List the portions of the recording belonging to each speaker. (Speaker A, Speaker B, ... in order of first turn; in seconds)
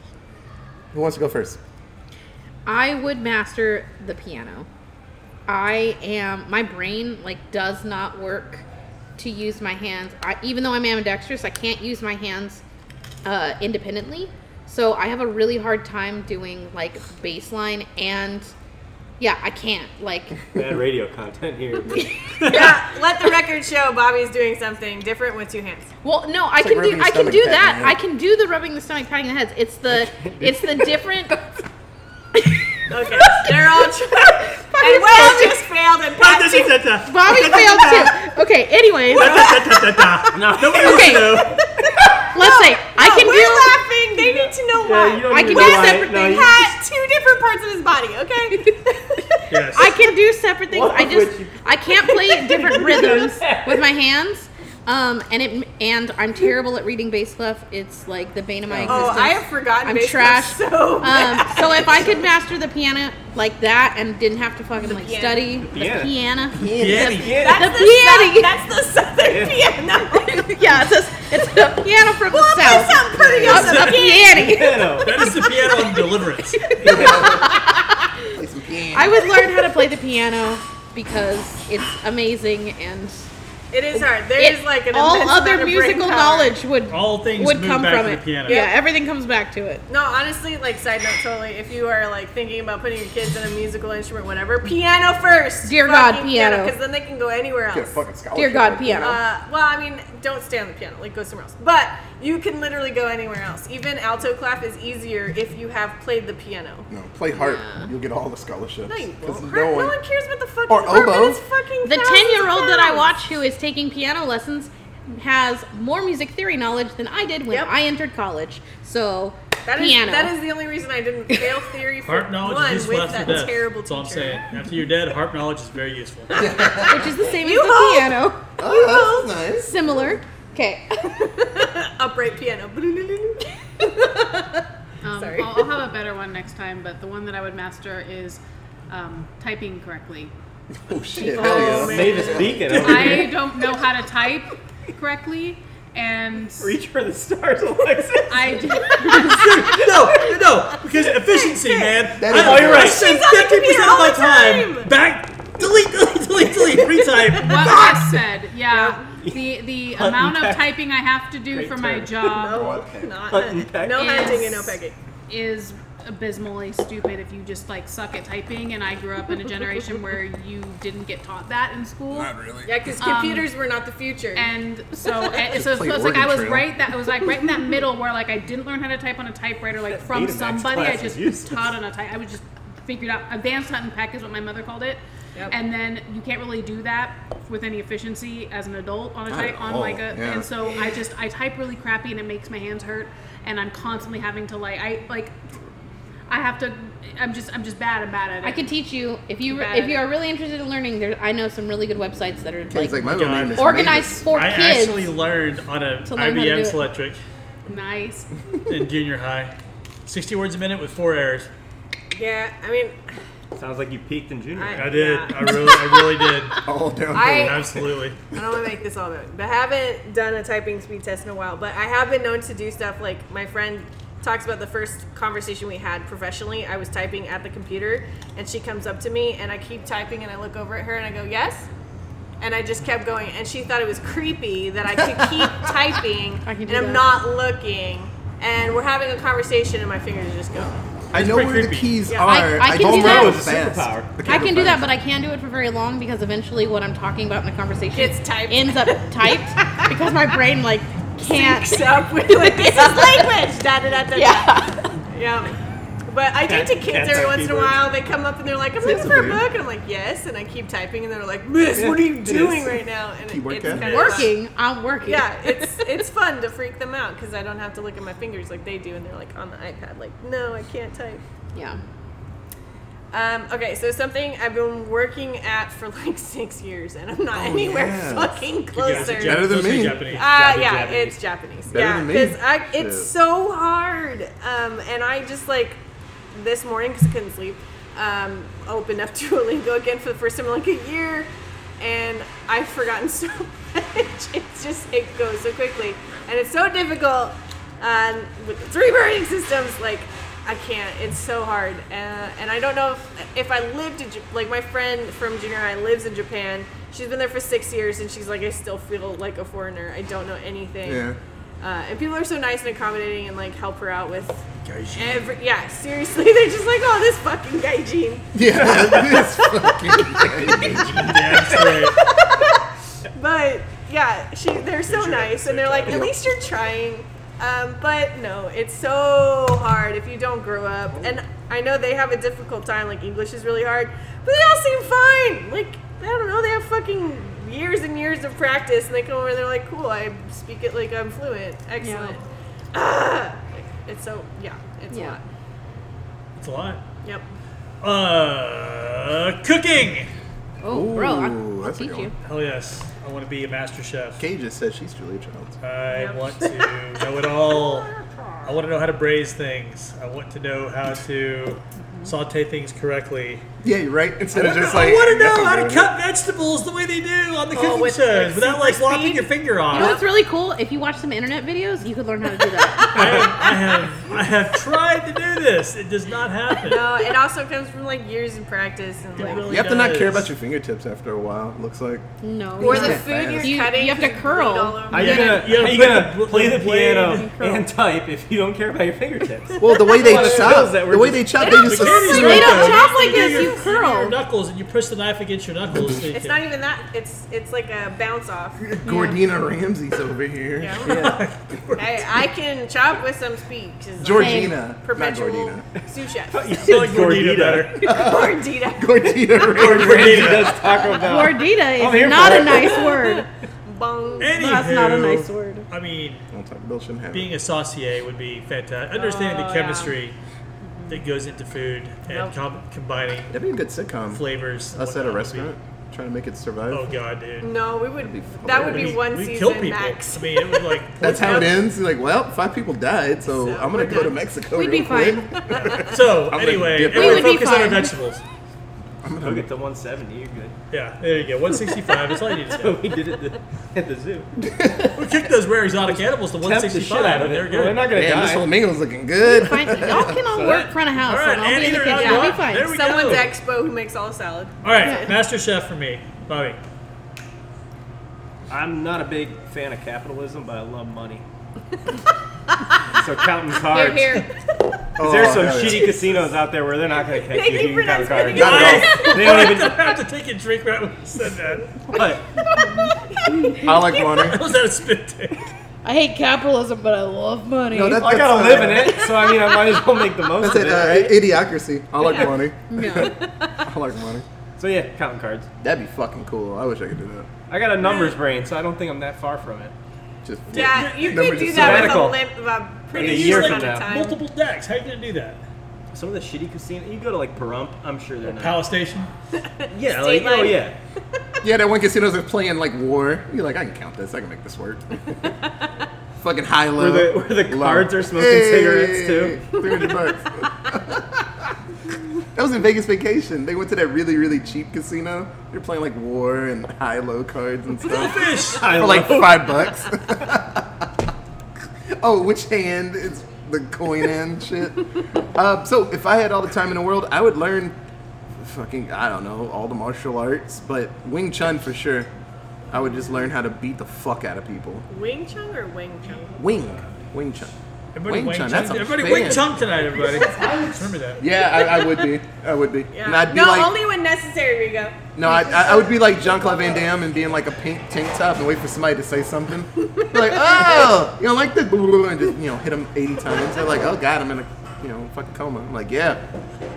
Speaker A: 0.9-1.6, 26.6-28.0, 58.7-59.1, 66.6-67.2, 73.1-73.8, 76.8-77.6, 78.3-79.2, 97.7-99.2, 106.9-110.0, 110.7-111.4, 126.3-127.1, 128.6-130.2, 140.9-143.2, 152.2-153.0, 162.6-162.9, 172.1-172.8, 175.5-176.7, 189.3-190.5, 202.7-204.3, 216.6-217.8, 235.4-235.6, 241.1-244.9, 258.8-259.4, 263.3-263.9, 277.3-280.1, 281.7-283.1, 310.8-311.2, 318.3-321.0, 325.9-326.1, 350.7-352.1, 354.2-355.6, 363.6-365.9, 379.5-382.1, 382.6-383.6, 389.6-392.8, 398.6-401.2, 404.0-405.7, 407.8-410.5, 416.3-417.4, 423.3-426.9, 428.0-429.0, 431.0-437.4, 439.0-439.5, 444.5-444.9, 447.9-450.4, 465.0-466.1, 468.4-468.7, 473.6-474.4, 477.7-479.1, 480.4-484.2, 485.6-487.3, 490.2-492.1, 501.4-505.3, 506.2-511.5, 512.3-520.9, 521.9-524.8, 525.3-527.8, 528.4-532.1, 532.7-534.9, 536.4-537.5, 538.1-539.5, 541.2-543.7, 545.1-556.2
Speaker B: 2.6-4.7, 5.5-8.7, 9.2-12.6, 13.2-18.5, 19.2-20.4, 21.9-22.5, 26.0-31.4, 33.2-33.5, 34.6-35.6, 37.0-39.6, 40.7-41.5, 42.3-43.8, 45.3-46.3, 49.7-68.5, 70.3-75.0, 76.5-77.9, 78.9-83.3, 83.9-89.8, 95.6-96.7, 98.3-99.2, 107.3-107.9, 111.8-120.3, 121.3-121.6, 126.8-128.4, 129.6-131.1, 198.4-205.1, 206.1-206.8, 236.4-237.1, 242.2-243.5, 244.2-253.4, 254.1-254.9, 263.8-265.9, 271.5-271.8, 341.8-342.2, 344.9-345.2, 350.6-352.1, 369.7-373.4, 382.2-384.8, 387.1-387.7, 391.8-394.2, 398.8-399.2, 404.1-404.6, 411.0-413.3, 414.3-415.7, 434.5-435.3, 436.9-437.9, 449.2-452.8, 454.8-455.1, 475.8-478.2, 482.7-483.1
Speaker C: 20.5-22.8, 29.9-30.8, 40.3-41.2, 44.1-46.7, 50.7-53.9, 65.5-66.1, 67.0-67.7, 69.2-69.6, 74.2-75.1, 76.8-77.5, 141.7-143.4, 146.6-149.3, 152.3-153.0, 159.2-160.7, 161.5-162.6, 163.3-164.2, 179.9-181.7, 213.5-215.0, 242.7-244.1, 256.4-257.9, 261.7-262.8, 279.8-281.2, 318.4-319.1, 320.4-321.8, 384.9-391.5, 406.3-407.8, 409.6-412.8, 439.2-440.6, 442.5-444.3, 445.8-448.5, 450.2-450.7, 458.5-461.2, 463.0-464.2, 465.0-469.9, 471.9-472.2, 477.9-481.2, 484.6-485.5, 487.5-489.7, 491.4-492.2, 492.9-493.9, 495.9-498.6, 499.7-500.8, 506.8-509.4, 518.5-519.8
Speaker D: 22.4-25.9, 32.9-36.9, 39.1-40.2, 41.0-49.6, 58.9-62.2, 64.8-65.4, 67.3-70.6, 72.3-74.4, 83.7-86.6, 88.4-88.8, 89.9-98.0, 98.9-106.9, 108.9-113.1, 117.5-117.7, 119.7-124.5, 126.3-129.3, 131.1-135.7, 141.2-143.2, 150.9-152.1, 152.6-154.9, 156.7-159.1, 162.2-164.9, 172.7-174.5, 212.1-213.0, 214.5-215.9, 217.1-217.6, 218.3-231.7, 232.4-240.9, 242.0-242.5, 247.9-250.0, 251.2-255.5, 256.1-264.4, 265.0-271.2, 273.1-285.8, 286.3-311.0, 311.6-322.6, 323.1-342.2, 342.7-345.2, 355.9-358.6, 367.5-370.1, 372.6-374.1, 376.6-379.5, 382.6-385.6, 389.9-390.5, 391.4-393.6, 396.0-398.6, 400.6-401.1, 401.7-406.6, 407.8-409.7, 410.6-411.0, 412.6-414.5, 418.9-419.9, 422.1-422.4, 427.4-431.6, 433.2-434.2, 451.6-455.2, 467.2-469.5, 473.1-474.3, 483.0-483.5, 487.8-488.2, 490.5-494.2, 499.4-500.7, 505.4-505.7, 509.6-510.1, 534.9-536.5, 541.5-542.1, 542.9-546.8, 550.0-550.9
Speaker E: 36.2-38.2, 39.1-41.6, 49.5-50.0, 66.7-67.4, 73.6-74.0, 75.0-76.6, 86.9-88.6, 122.0-126.3, 149.2-157.9, 202.9-207.2, 208.7-209.5, 210.1-211.5, 214.8-216.6, 217.4-218.2, 241.1-242.0, 263.7-264.2, 278.8-280.4, 314.6-315.3, 320.9-322.0, 324.9-326.1, 346.4-346.8, 347.8-350.1, 352.2-354.2, 355.6-357.9, 358.4-363.4, 364.3-370.0, 372.9-377.0, 379.2-380.3, 384.9-387.2, 391.5-396.4, 400.9-402.0, 406.6-407.9, 409.6-410.6, 414.2-416.2, 417.1-420.1, 420.9-423.3, 424.1-425.5, 426.7-427.6, 428.6-431.6, 435.7-438.2, 440.7-442.8, 445.0-447.9, 450.9-453.3, 454.6-456.6, 468.3-471.9, 474.1-475.4, 490.7-491.1, 492.9-495.4, 498.2-499.1, 517.9-519.0, 537.9-541.2
Speaker F: 135.0-140.3, 141.2-146.8, 148.3-149.5, 157.4-162.6, 163.9-172.3, 172.9-173.5, 174.3-195.3, 196.3-198.7, 199.5-200.1, 207.7-208.3, 463.7-464.3